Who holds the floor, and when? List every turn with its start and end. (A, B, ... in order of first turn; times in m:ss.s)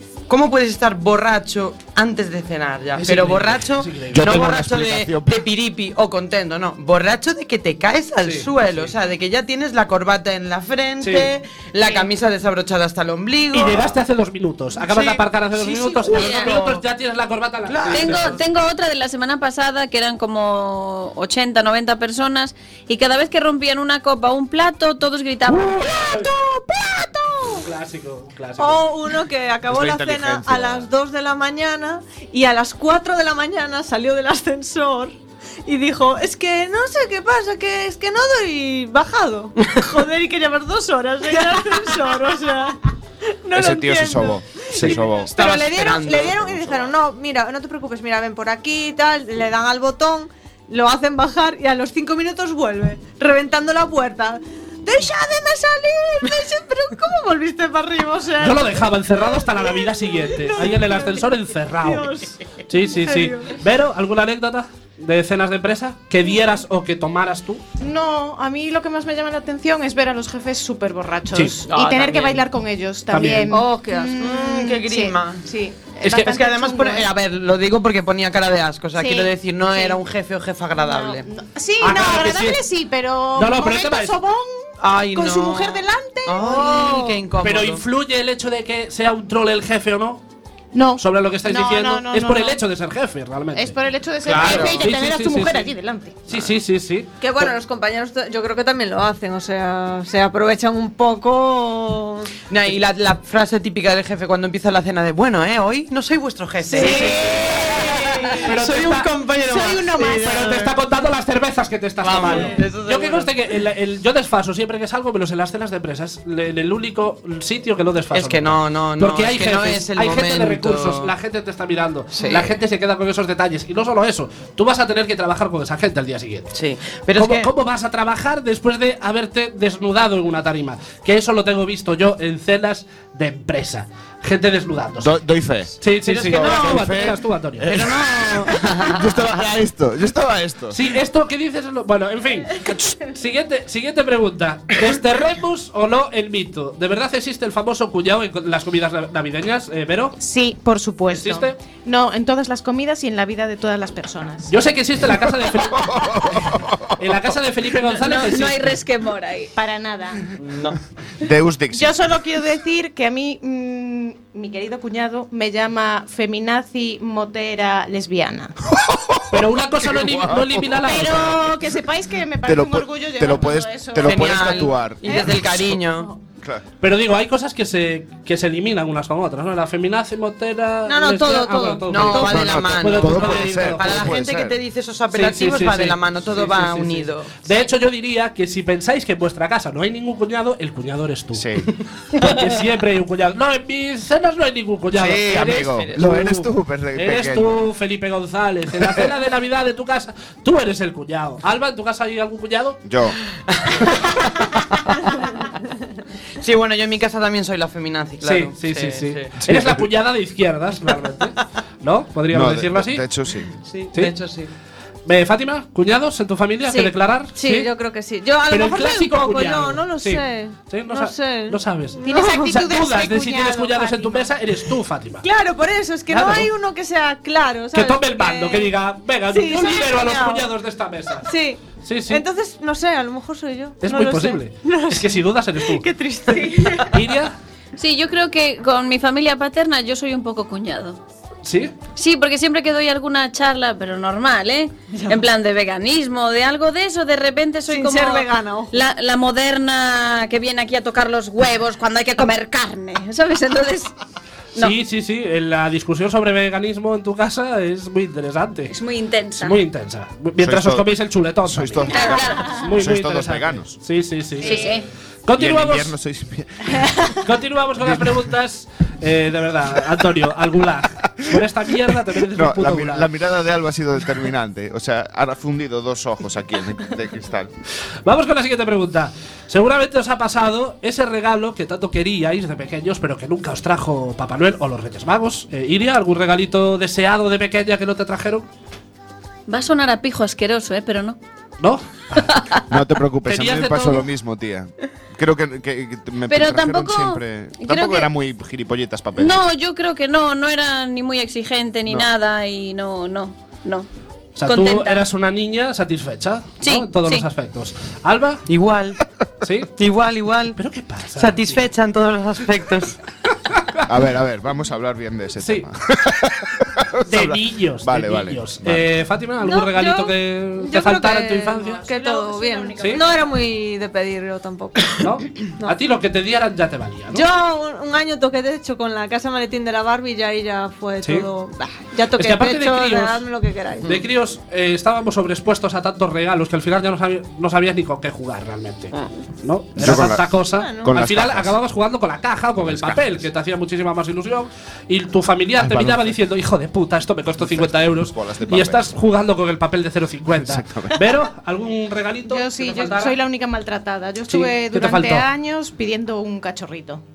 0:00.3-0:14.0 A
0:03.0-0:04.5 B
0:04.1-0:05.4 C
0:08.2-0:08.9 B
0:11.0-0:11.3 B
0:13.5-0:18.4 B
0:14.8-0:16.8 A
0:17.6-0:18.4 A
0:17.9-0:26.3 D
0:25.4-0:26.3 B
0:26.4-0:27.6 E
0:27.5-0:28.8 B
0:28.6-0:42.8 E
0:29.7-0:30.9 C
0:43.4-1:03.6 E
0:43.5-0:45.4 C
0:44.8-0:46.9 A
0:58.4-1:02.1 B
1:02.7-1:07.6 B
1:07.8-1:17.1 F
1:11.6-1:12.4 A
1:13.1-1:13.5 B
1:13.5-1:14.2 E
1:14.2-1:15.4 A
1:16.0-1:16.4 B
1:16.2-1:21.3 A
1:19.0-1:20.0 F
1:20.8-1:27.1 F
1:21.8-1:22.6 B
1:23.3-1:24.1 B
1:24.8-1:27.8 A
1:27.4-1:30.2 B
1:30.7-1:32.6 F
1:31.0-1:35.7 B
1:33.5-1:36.2 F
1:34.2-1:34.9 A
1:36.3-1:37.1 B
1:36.3-1:36.6 C
1:37.2-1:42.3 E
1:42.5-1:50.7 A
1:46.6-1:49.1 B
1:46.7-1:48.2 F
1:49.4-1:50.4 F
1:50.1-2:06.5 B
1:52.0-1:53.3 A
1:58.1-2:01.1 A
2:02.1-2:02.5 A
2:06.5-2:07.5 A
2:07.1-2:15.2 B
2:15.0-2:17.2 C
2:15.8-2:17.8 B
2:16.0-2:17.0 A
2:17.6-2:19.3 A
2:18.8-2:20.9 C
2:20.7-2:30.2 B
2:30.2-2:34.5 F
2:31.1-2:31.6 B
2:34.5-2:36.4 B
2:35.2-2:37.2 C
2:37.0-2:38.8 B
2:37.9-2:39.5 D
2:39.6-2:40.4 F
2:40.4-2:40.8 A
2:41.2-2:42.0 C
2:41.7-2:48.6 F
2:48.7-2:51.1 C
2:49.3-2:51.5 B
2:50.8-2:56.1 F
2:52.4-2:55.8 C
2:54.0-2:56.1 A
2:56.8-3:04.2 B
3:00.8-3:02.6 E
3:01.9-3:07.4 A
3:02.1-3:04.6 C
3:05.1-3:22.8 B
3:11.3-3:11.7 C
3:14.9-3:17.6 C
3:15.3-3:16.1 A
3:22.8-3:23.2 C
3:23.3-3:25.5 A
3:26.4-3:29.3 A
3:28.2-3:33.0 B
3:29.4-3:29.8 C
3:32.3-3:33.5 C
3:33.5-3:34.5 A
3:35.0-3:37.7 B
3:36.6-3:42.7 E
3:38.5-3:45.2 B
3:42.0-3:44.3 F
3:45.2-3:48.7 E
3:46.1-3:46.5 B
3:47.7-3:51.2 B
3:49.3-3:50.5 E
3:51.2-3:57.0 E
3:51.8-3:52.2 B
3:53.8-3:55.8 B
3:56.8-3:57.3 B
3:57.8-4:01.0 D
4:01.4-4:01.7 B
4:02.0-4:13.9 D
4:07.7-4:08.7 E
4:14.6-4:18.8 B
4:18.7-4:19.6 D
4:19.4-4:24.7 B
4:20.4-4:20.9 C
4:21.4-4:23.7 C
4:21.9-4:22.6 D
4:24.4-4:24.8 D
4:25.2-4:25.9 B
4:25.4-4:27.1 C
4:27.2-4:33.1 B
4:27.8-4:28.3 C
4:32.3-4:37.5 C
4:38.0-4:48.5 B
4:49.5-4:51.2 D
4:51.6-4:52.4 B
4:52.7-4:59.4 C
4:53.2-4:54.0 B
4:56.3-4:58.1 D
4:59.2-5:03.9 D
5:04.4-5:08.4 B
5:04.4-5:05.0 D
5:06.6-5:07.2 D
5:08.5-5:09.0 A
5:09.4-5:09.7 B
5:09.8-5:10.6 A
5:10.6-5:11.6 B
5:11.2-5:13.0 A
5:13.5-5:13.8 B
5:13.8-5:18.9 C
5:15.4-5:15.7 B
5:17.1-5:21.8 B
5:19.5-5:20.0 D
5:20.6-5:25.0 E
5:21.8-5:23.2 F
5:22.8-5:23.0 B
5:25.0-5:27.2 B
5:27.1-5:34.0 E
5:31.0-5:31.3 B
5:32.2-5:33.2 B
5:33.8-5:53.2 B
5:39.8-5:41.6 C
5:39.8-5:40.9 E
5:42.6-5:43.2 C
5:45.6-5:46.1 C
5:47.4-5:48.9 C
5:50.3-5:51.2 C
5:52.3-5:57.0 F
5:54.3-5:55.2 B